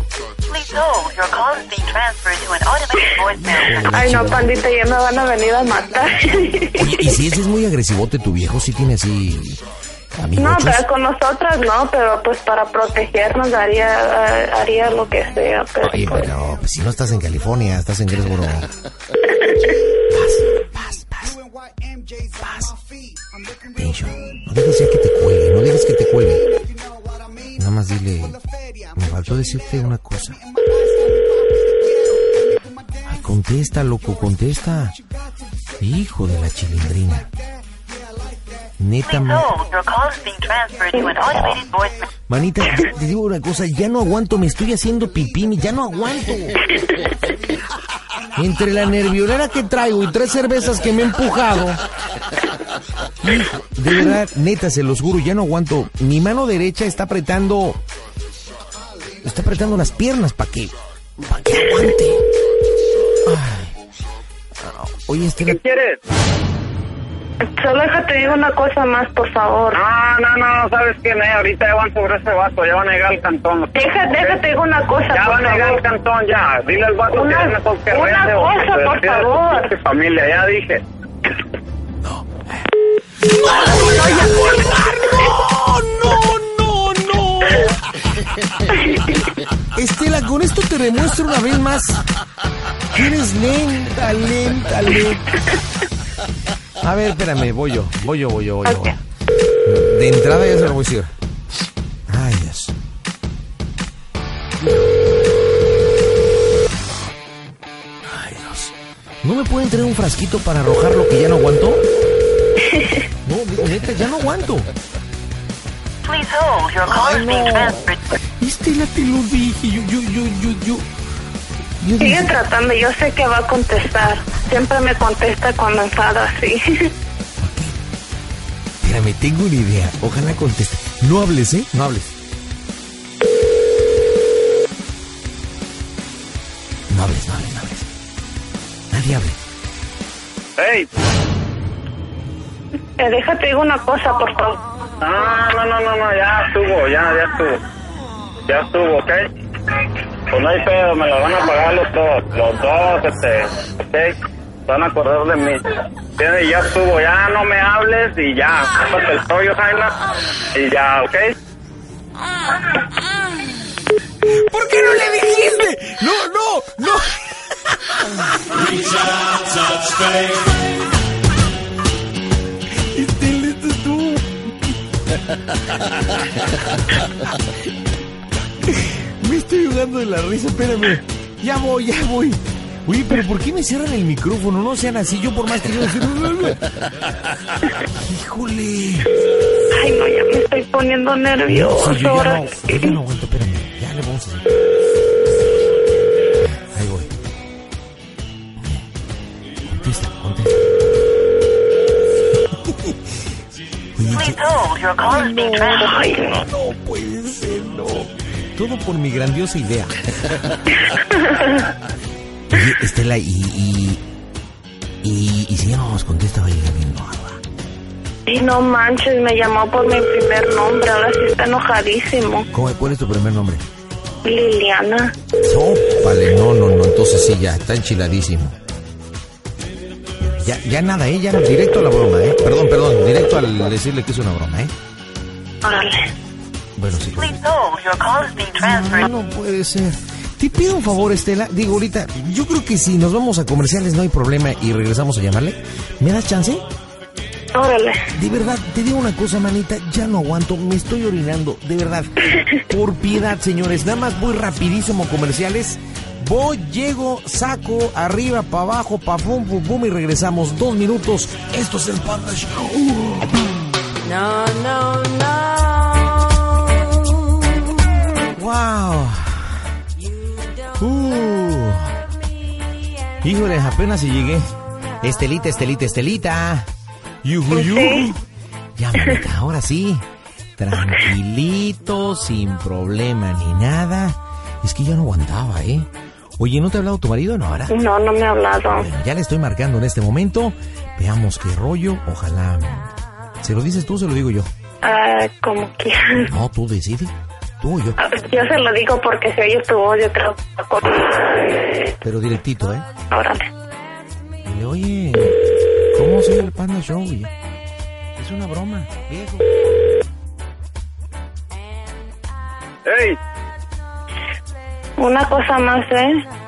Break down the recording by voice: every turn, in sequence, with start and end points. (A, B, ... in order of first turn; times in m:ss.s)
0:00.5-0:03.9 A
0:03.3-0:04.6 B
0:03.9-0:07.1 C
0:06.8-0:09.6 B
0:10.2-0:10.8 B
0:10.4-0:16.2 C
0:15.8-0:18.7 B
0:20.1-0:21.4 B
0:22.4-0:22.8 B
0:23.7-0:26.6 B
0:27.6-0:28.4 B
0:29.0-0:30.4 B
0:33.0-0:35.0 B
0:35.8-0:37.3 B
0:38.8-0:39.5 B
0:39.0-0:42.1 A
0:42.3-0:46.7 B
0:48.4-0:51.8 B
0:53.2-0:57.8 B
0:59.2-1:02.2 B
1:03.2-1:03.8 B
1:04.6-1:05.6 B
1:05.4-1:06.0 D
1:07.4-1:09.8 C
1:09.8-1:14.4 D
1:13.7-1:15.8 C
1:15.1-1:20.8 D
1:17.1-1:19.7 C
1:22.0-1:22.7 B
1:23.3-1:27.8 B
1:29.7-1:32.0 B
1:32.9-1:35.4 B
1:36.8-1:39.0 B
1:38.7-1:38.9 C
1:39.6-1:41.1 B
1:42.1-1:42.7 B
1:48.0-1:51.8 B
1:52.7-1:53.1 C
1:53.2-1:54.7 B
1:56.0-1:58.2 A
1:57.2-1:57.7 B
1:58.4-2:00.8 B
2:01.8-2:02.4 B
2:02.0-2:06.9 C
2:07.4-2:07.8 B
2:08.8-2:12.2 B
2:16.9-2:17.9 B
2:18.9-2:19.4 B
2:20.6-2:20.9 D
2:23.0-2:24.6 C
2:25.0-2:27.6 D
2:28.5-2:29.3 D
2:30.3-2:35.6 D
2:36.2-2:40.0 D
2:40.5-2:41.3 D
2:44.2-2:50.4 B
2:52.9-2:54.8 B
2:56.9-2:57.5 B
2:58.6-3:06.6 B
3:07.9-3:09.1 B
3:09.7-3:13.0 C
3:11.5-3:14.6 B
3:16.4-3:17.1 B
3:19.6-3:20.6 B
3:22.5-3:23.1 B
3:24.0-3:24.4 B
3:24.1-3:26.1 A
3:25.0-3:30.4 B
3:25.7-3:26.4 C
3:31.1-3:31.6 C
3:32.5-3:34.0 B
3:35.0-3:37.4 B
3:38.3-3:42.5 C
3:42.5-3:43.6 B
3:44.2-3:45.1 C
3:45.4-3:48.6 B
3:50.2-3:54.7 B
3:55.6-3:56.1 C
3:56.8-3:57.4 B
3:57.1-3:59.1 A
3:58.6-4:06.6 B
4:07.5-4:08.0 C
4:08.1-4:12.1 B
4:12.7-4:23.5 B
4:28.2-4:29.6 B
4:30.8-4:32.0 B
4:33.2-4:34.4 B
4:35.0-4:36.7 B
4:37.2-4:38.2 B
4:37.5-4:38.1 C
4:38.8-4:40.0 B
4:40.6-4:47.8 B
4:47.7-4:48.9 C
4:48.7-4:52.9 B
4:53.4-4:54.5 B
4:54.8-4:56.3 C
4:56.2-4:58.0 B
4:58.0-5:01.6 C
5:02.0-5:02.9 B
5:03.1-5:03.5 C
5:04.4-5:05.4 B
5:05.9-5:07.3 B
5:08.2-5:09.5 B
5:12.9-5:13.2 D
5:15.0-5:16.2 C